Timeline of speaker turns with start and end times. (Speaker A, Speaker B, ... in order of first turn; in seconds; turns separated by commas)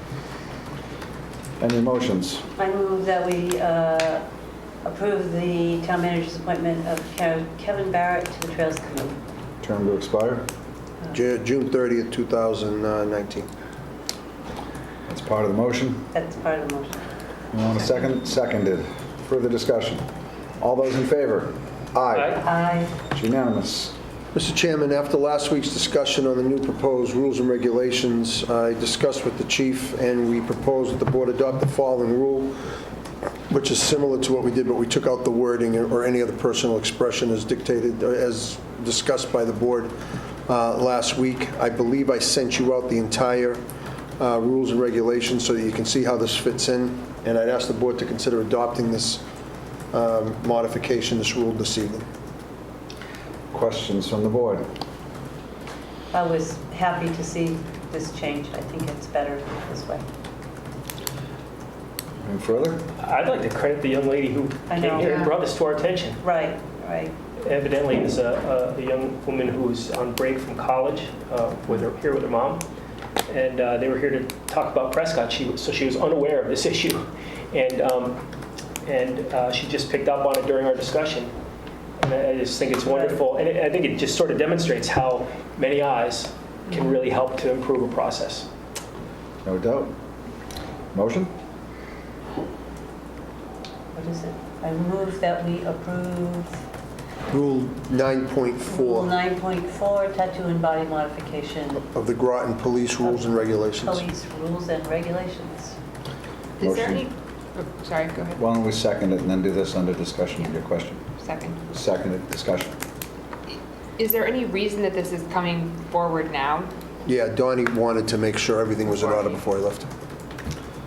Speaker A: 1.6-2.4, Speaker B: 2.6-4.2, Speaker B: 4.8-9.2, Speaker A: 9.6-10.4, Speaker C: 11.1-13.5, Speaker A: 15.1-16.1, Speaker B: 16.1-17.0, Speaker A: 17.5-20.0, Speaker A: 20.6-22.4, Speaker D: 22.1-22.4, Speaker B: 22.4-22.9, Speaker A: 23.0-23.9, Speaker C: 24.3-32.5, Speaker C: 33.5-39.9, Speaker C: 40.5-43.6, Speaker C: 44.2-49.2, Speaker C: 49.9-52.0, Speaker A: 53.5-54.6, Speaker B: 56.1-60.0, Speaker A: 62.2-62.8, Speaker D: 63.0-66.2, Speaker B: 64.7-65.1, Speaker E: 65.0-65.3, Speaker B: 66.2-67.1, Speaker D: 67.4-72.6, Speaker D: 73.3-78.2, Speaker D: 78.8-81.3, Speaker D: 82.0-88.5, Speaker B: 82.9-83.2, Speaker A: 89.4-89.9, Speaker A: 90.9-91.3, Speaker B: 93.9-96.6, Speaker C: 97.3-99.1, Speaker B: 98.7-101.8, Speaker C: 101.7-104.0, Speaker B: 103.0-105.8, Speaker E: 106.6-108.4, Speaker A: 106.6-107.1, Speaker A: 108.4-111.0, Speaker E: 111.2-111.6, Speaker A: 111.7-112.7, Speaker E: 114.0-116.7, Speaker C: 117.0-119.9, Speaker E: 118.9-119.3